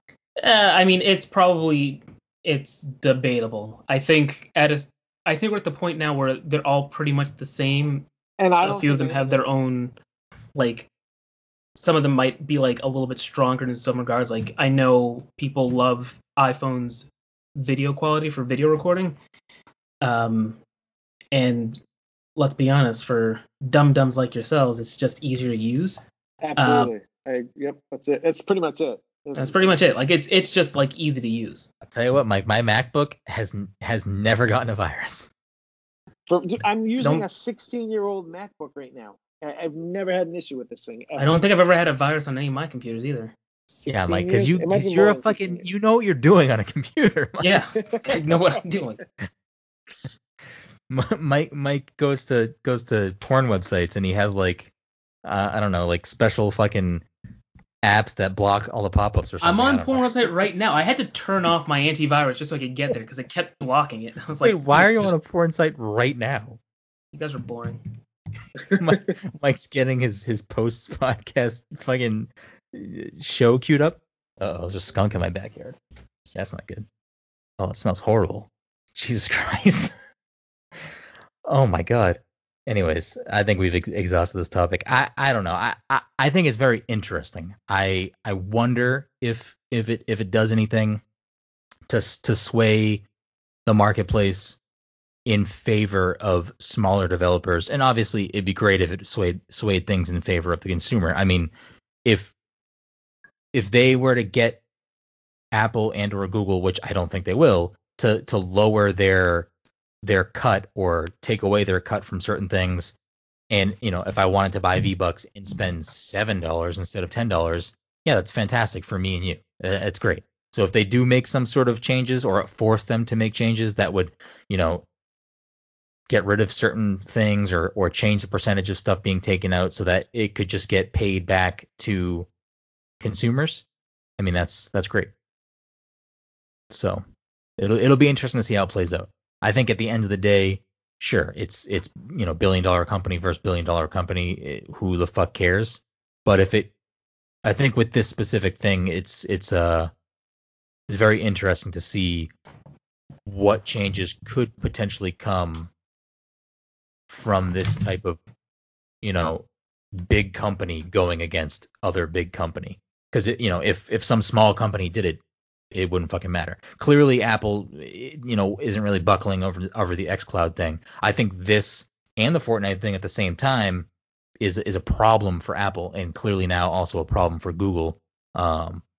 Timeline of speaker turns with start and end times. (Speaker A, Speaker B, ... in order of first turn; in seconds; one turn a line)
Speaker A: 0.4-8.1
Speaker B: 8.4-9.5
Speaker A: 8.6-9.9
Speaker A: 10.5-10.9
Speaker A: 11.8-19.1
Speaker A: 20.0-20.6
Speaker A: 21.3-21.8
Speaker A: 22.4-26.0
Speaker B: 26.4-30.1
Speaker A: 26.6-26.9
Speaker A: 29.4-31.7
Speaker C: 31.8-35.3
Speaker B: 36.3-41.4
Speaker A: 37.0-37.2
Speaker A: 41.2-43.4
Speaker B: 43.7-45.6
Speaker C: 43.9-48.1
Speaker A: 47.4-49.0
Speaker B: 47.8-48.1
Speaker C: 50.9-54.7
Speaker C: 55.2-57.0
Speaker C: 57.8-60.1
Speaker A: 59.4-65.1
Speaker C: 64.4-66.6
Speaker A: 67.1-67.8
Speaker C: 68.8-75.8
Speaker C: 76.3-76.8
Speaker C: 77.6-79.9
Speaker C: 81.5-91.0
Speaker C: 91.9-93.0
Speaker C: 93.7-94.6
Speaker C: 95.2-101.5
Speaker C: 102.0-102.3
Speaker C: 103.5-104.6
Speaker C: 105.5-109.5
Speaker C: 110.0-112.9
Speaker C: 113.5-124.8
Speaker C: 126.1-132.3
Speaker C: 133.0-133.6
Speaker C: 134.2-135.1
Speaker C: 136.7-137.0
Speaker C: 137.6-146.7
Speaker C: 147.4-149.9
Speaker C: 150.9-152.3
Speaker C: 153.2-155.7
Speaker C: 157.1-158.2
Speaker C: 159.0-159.4
Speaker C: 160.0-165.2
Speaker C: 165.7-173.9
Speaker C: 174.4-178.8